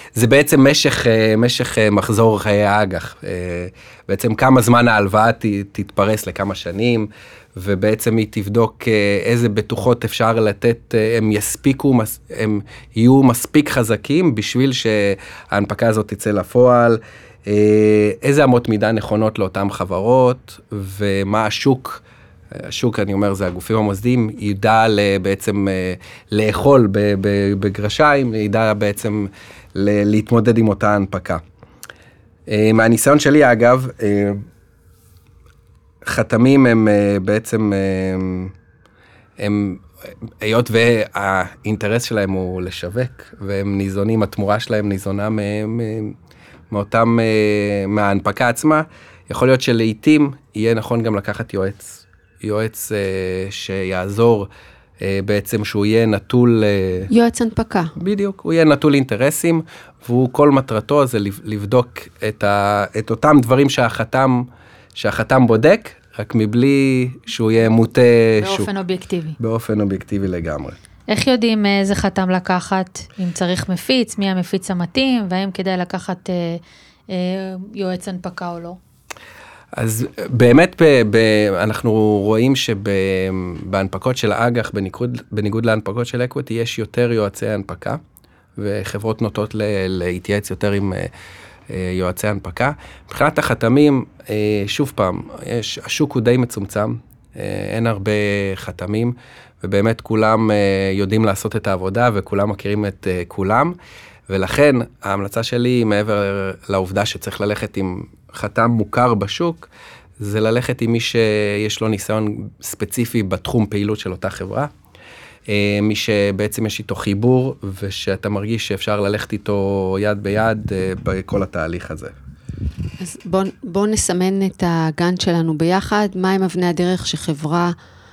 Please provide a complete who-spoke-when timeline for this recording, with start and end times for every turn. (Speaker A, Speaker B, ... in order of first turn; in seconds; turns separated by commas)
Speaker A: 0.1-31.4, Speaker A: 32.5-34.4, Speaker A: 36.1-38.5, Speaker A: 39.4-46.1, Speaker A: 46.7-54.5, Speaker A: 55.0-57.1, Speaker B: 57.1-57.9, Speaker A: 58.0-68.7, Speaker C: 68.4-69.3, Speaker A: 69.4-70.8, Speaker C: 71.1-78.8, Speaker A: 79.8-88.0, Speaker A: 88.6-91.1, Speaker A: 91.7-103.7, Speaker A: 104.3-114.7, Speaker A: 115.5-122.1, Speaker B: 123.0-127.7